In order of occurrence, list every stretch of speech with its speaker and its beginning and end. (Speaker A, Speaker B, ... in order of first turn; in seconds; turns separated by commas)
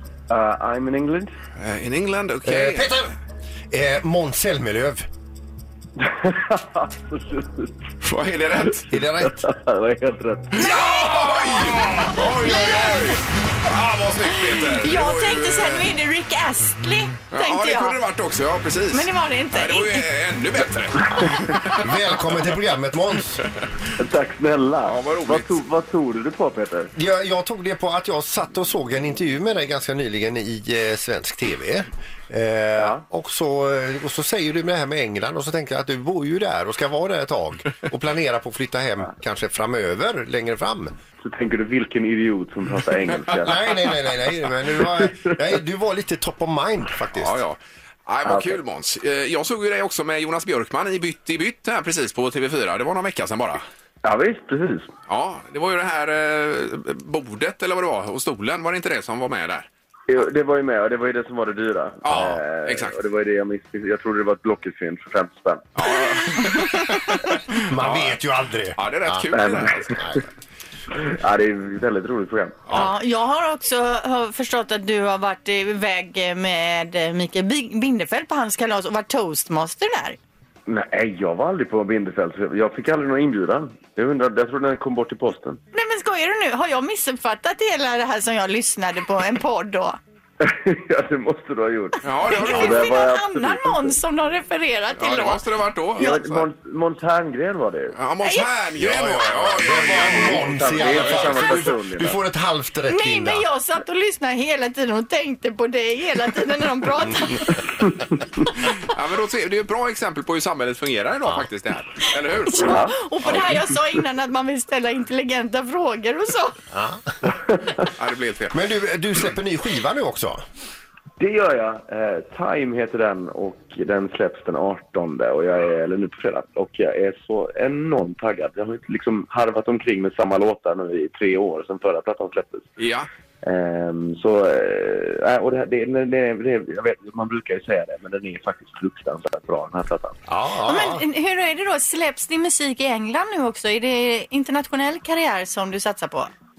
Speaker A: 0.3-1.3, Speaker B: 1.6-3.0, Speaker C: 2.5-3.1, Speaker C: 3.7-5.1, Speaker A: 6.0-7.8, Speaker B: 8.0-8.8, Speaker C: 8.9-9.5, Speaker A: 8.9-10.8, Speaker B: 10.6-15.9, Speaker D: 10.6-13.2, Speaker D: 14.3-18.0, Speaker B: 17.3-21.9, Speaker D: 18.9-20.1, Speaker C: 21.7-23.4, Speaker A: 24.0-26.9, Speaker B: 24.9-25.6, Speaker C: 27.0-40.9, Speaker A: 32.8-33.0, Speaker A: 41.2-43.5, Speaker C: 43.4-47.4, Speaker B: 47.1-53.6, Speaker A: 48.3-48.6, Speaker A: 54.0-54.9, Speaker B: 55.1-59.7, Speaker A: 60.1-65.7, Speaker B: 62.0-63.0, Speaker B: 65.8-68.2, Speaker C: 67.5-69.2, Speaker B: 68.8-70.0, Speaker A: 69.3-70.2, Speaker C: 69.9-70.2, Speaker A: 70.9-72.7, Speaker D: 72.7-80.2, Speaker A: 80.7-85.6, Speaker D: 85.7-90.0, Speaker A: 90.4-94.0, Speaker B: 92.0-93.0, Speaker D: 92.3-95.4, Speaker B: 95.0-96.4, Speaker D: 96.0-96.2, Speaker A: 96.0-98.0, Speaker B: 98.0-101.7, Speaker D: 98.2-98.5, Speaker C: 98.8-103.5, Speaker A: 99.7-102.2, Speaker D: 102.9-107.6, Speaker A: 107.6-108.2, Speaker B: 108.8-112.8, Speaker D: 112.5-116.6, Speaker A: 112.6-113.7, Speaker C: 116.7-117.1, Speaker A: 117.3-117.7, Speaker B: 118.0-118.6, Speaker C: 118.5-120.4, Speaker A: 121.2-132.7, Speaker B: 132.8-133.1, Speaker A: 133.4-140.2, Speaker C: 140.3-141.1, Speaker D: 140.7-146.3